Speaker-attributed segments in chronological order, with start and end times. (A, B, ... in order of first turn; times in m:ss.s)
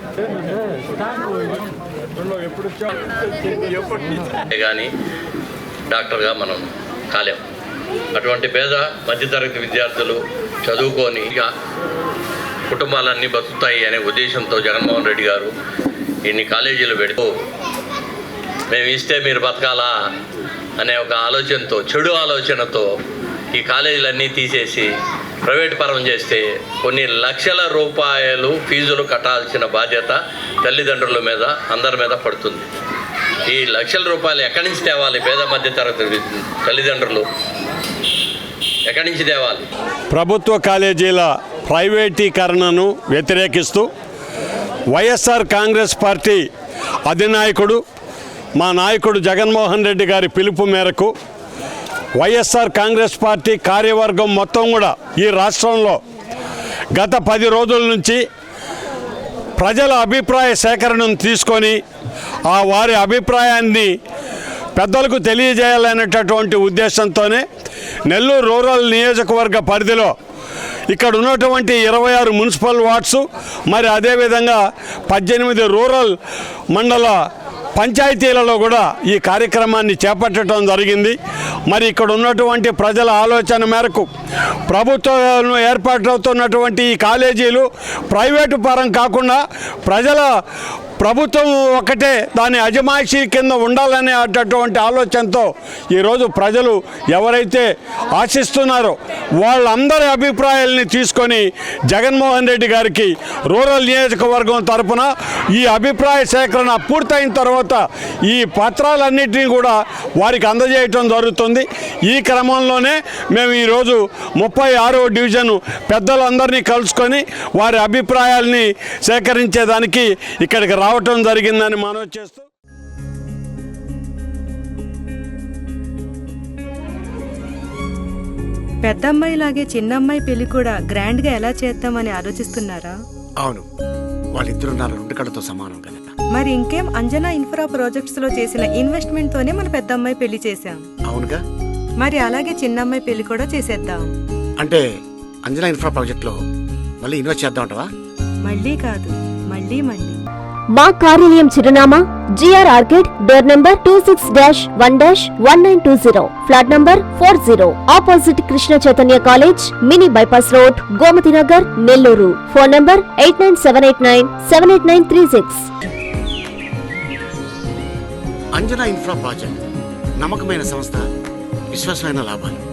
0:04.2-0:04.9 A
0:05.9-0:07.4 A
0:08.1-0:11.5 A
0:12.7-0:15.5 A
0:16.2-0:17.3 A
0:18.7-0:19.9 A
0:20.8-0:22.9 A
0:23.5-0:24.9 A
0:25.4-0:32.7 A
0:33.5-0:37.3 A
0:38.9-0:39.6 A
0:40.1-0:43.9 B
0:44.9-0:46.4 B
0:47.1-0:47.8 B
0:48.6-0:51.1 B
0:52.2-0:56.0 B
0:56.9-0:58.2 B
0:59.6-1:01.8 B
1:02.5-1:03.9 B
1:04.8-1:07.4 B
1:08.1-1:10.1 B
1:10.9-1:16.1 B
1:16.7-1:17.2 B
1:17.8-1:21.2 B
1:21.7-1:24.1 B
1:24.7-1:30.3 B
1:31.0-2:02.5 B
2:08.8-2:12.9 C
2:13.4-2:13.6 D
2:14.4-2:16.1 D
2:16.3-2:20.8 C
2:21.1-2:21.4 D
2:22.0-2:24.1 C
2:25.4-2:26.4 D
2:27.0-2:27.9 D
2:28.4-2:30.2 C
2:30.7-2:45.7 E
2:48.6-2:49.6 D
2:50.2-2:51.0 D
2:51.7-2:52.6 D